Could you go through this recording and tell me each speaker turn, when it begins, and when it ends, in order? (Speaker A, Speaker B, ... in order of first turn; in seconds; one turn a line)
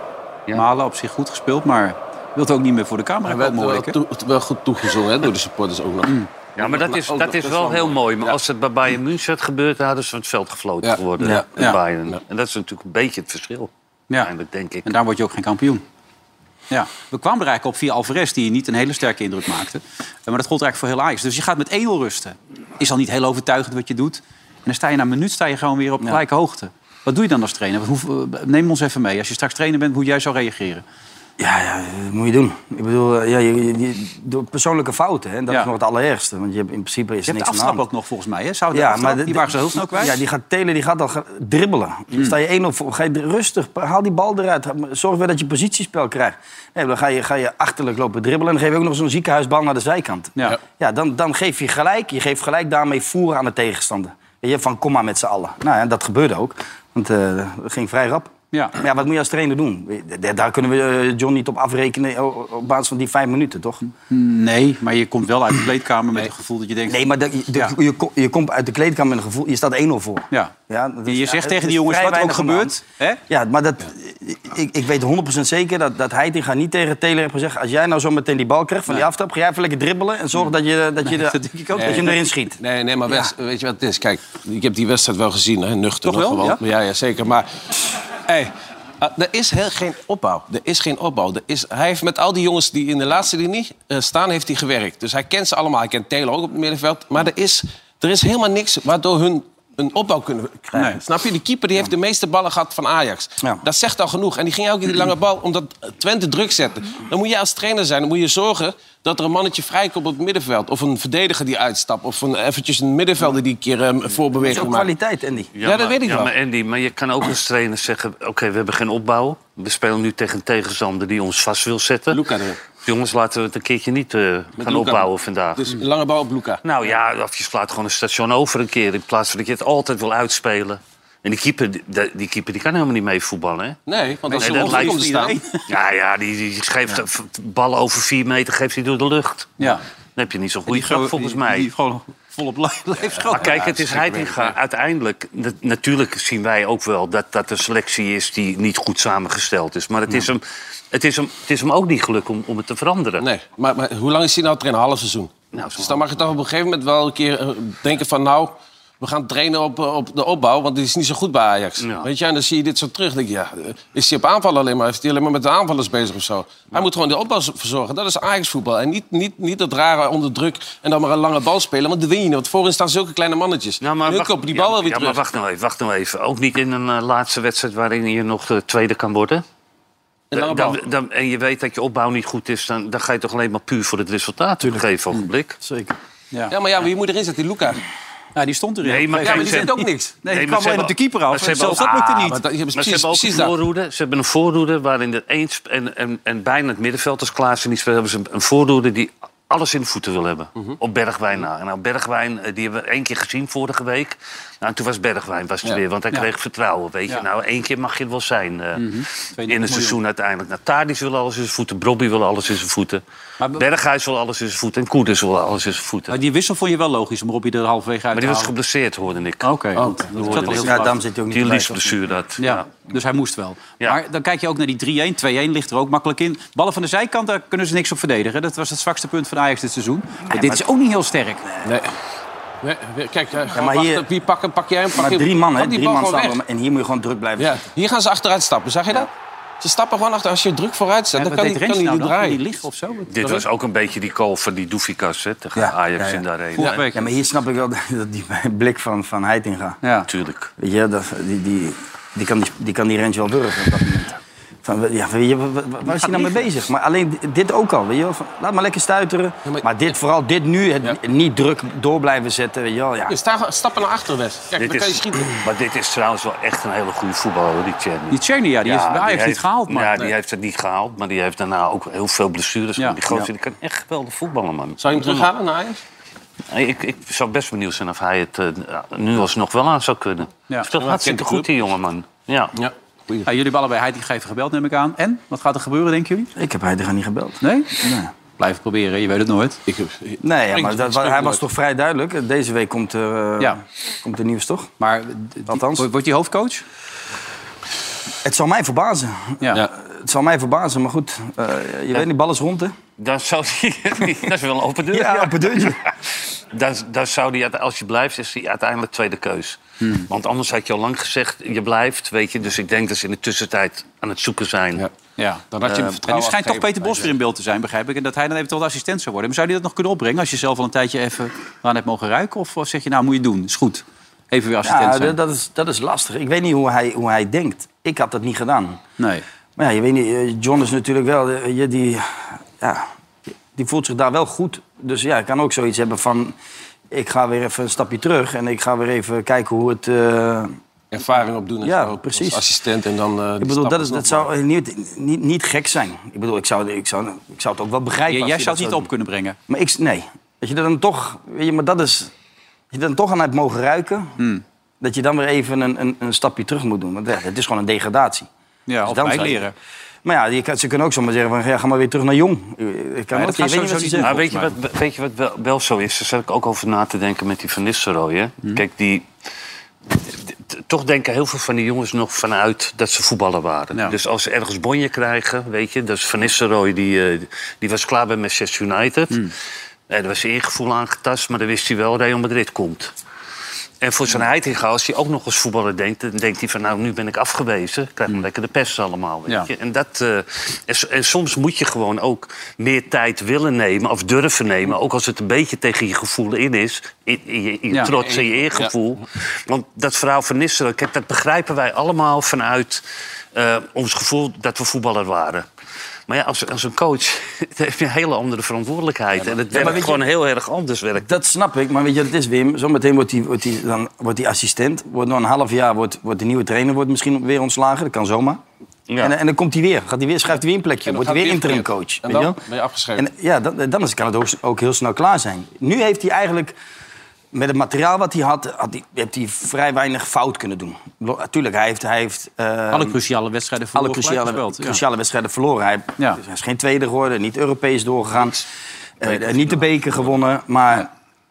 Speaker A: 0.5-4.0
Speaker B: 3.3-8.4
Speaker C: 6.6-14.9
Speaker B: 10.8-12.2
Speaker A: 14.8-15.8
Speaker A: 16.7-30.9
Speaker D: 31.4-37.8
Speaker A: 37.3-40.2
Speaker D: 38.7-63.9
Speaker A: 64.1-67.8
Speaker D: 66.9-72.8
Speaker A: 71.0-73.2
Speaker D: 73.3-82.6
Speaker A: 81.1-82.2
Speaker B: 81.8-87.5
Speaker A: 86.0-86.6
Speaker B: 89.0-114.9
Speaker A: 100.7-101.0
Speaker D: 114.4-115.5
Speaker C: 115.6-122.2
Speaker B: 115.6-116.3
Speaker B: 122.1-122.6
Speaker C: 122.8-125.7
Speaker B: 124.6-126.6
Speaker C: 126.6-133.8
Speaker B: 133.9-135.4
Speaker A: 134.3-135.7
Speaker C: 134.4-135.0
Speaker C: 135.7-141.7
Speaker A: 140.7-144.6
Speaker C: 143.3-153.3
Speaker B: 153.2-175.2
Speaker C: 155.5-156.0
Speaker C: 161.8-162.1
Speaker C: 173.8-179.4
Speaker B: 180.3-180.8
Speaker C: 180.3-185.6
Speaker D: 185.6-185.9
Speaker B: 186.5-187.8
Speaker A: 188.3-192.4
Speaker C: 188.8-189.7
Speaker B: 189.2-190.2
Speaker C: 190.3-213.0
Speaker B: 192.2-193.6
Speaker A: 208.8-210.0
Speaker A: 213.4-213.7
Speaker C: 213.6-216.2
Speaker A: 216.1-218.5
Speaker C: 218.1-219.5
Speaker A: 219.4-221.0
Speaker B: 219.8-220.7
Speaker C: 220.1-222.7
Speaker D: 220.7-222.0
Speaker A: 222.4-231.4
Speaker D: 230.3-230.6
Speaker B: 231.6-231.9
Speaker B: 232.6-236.4
Speaker D: 233.5-234.1
Speaker D: 235.0-237.7
Speaker B: 237.4-239.1
Speaker B: 239.6-242.5
Speaker A: 241.2-243.2
Speaker C: 243.1-246.7
Speaker A: 246.6-247.1
Speaker D: 246.9-249.8
Speaker A: 249.8-250.1
Speaker C: 250.1-250.5
Speaker D: 250.6-263.1
Speaker A: 255.9-256.5
Speaker B: 259.4-259.9
Speaker B: 263.1-265.4
Speaker C: 264.6-275.3
Speaker A: 268.1-269.9
Speaker B: 274.8-275.8
Speaker C: 276.5-282.6
Speaker B: 280.8-281.5
Speaker B: 282.6-283.3
Speaker A: 283.2-286.3
Speaker D: 286.4-288.1
Speaker A: 287.4-287.8
Speaker A: 288.4-289.6
Speaker B: 289.7-291.4
Speaker D: 290.2-294.7
Speaker A: 294.8-296.6
Speaker D: 295.5-295.9
Speaker D: 298.2-302.7
Speaker C: 303.0-314.9
Speaker D: 304.9-305.8
Speaker A: 309.8-310.1
Speaker A: 315.2-315.5
Speaker B: 315.5-317.1
Speaker C: 315.7-316.0
Speaker A: 316.0-325.2
Speaker D: 324.6-328.8
Speaker A: 329.0-329.2
Speaker D: 329.6-332.9
Speaker D: 333.6-336.4
Speaker D: 336.9-340.6
Speaker B: 340.9-344.3
Speaker D: 341.6-342.4
Speaker D: 343.4-348.9
Speaker A: 348.1-349.4
Speaker D: 349.5-352.1
Speaker D: 352.7-354.2
Speaker D: 354.8-358.3
Speaker A: 358.7-359.5
Speaker D: 358.8-359.5
Speaker D: 360.1-364.2
Speaker A: 363.1-364.5
Speaker C: 364.0-369.1
Speaker C: 370.0-379.3
Speaker C: 379.9-382.9
Speaker C: 383.8-405.5
Speaker B: 398.1-398.7
Speaker C: 406.1-411.2
Speaker D: 409.5-410.0
Speaker D: 411.1-418.4
Speaker C: 418.9-419.1
Speaker D: 419.0-422.4
Speaker B: 420.9-423.1
Speaker D: 423.0-426.5
Speaker D: 427.3-433.0
Speaker A: 432.7-434.8
Speaker D: 433.8-438.4
Speaker D: 439.0-440.9
Speaker B: 439.0-440.2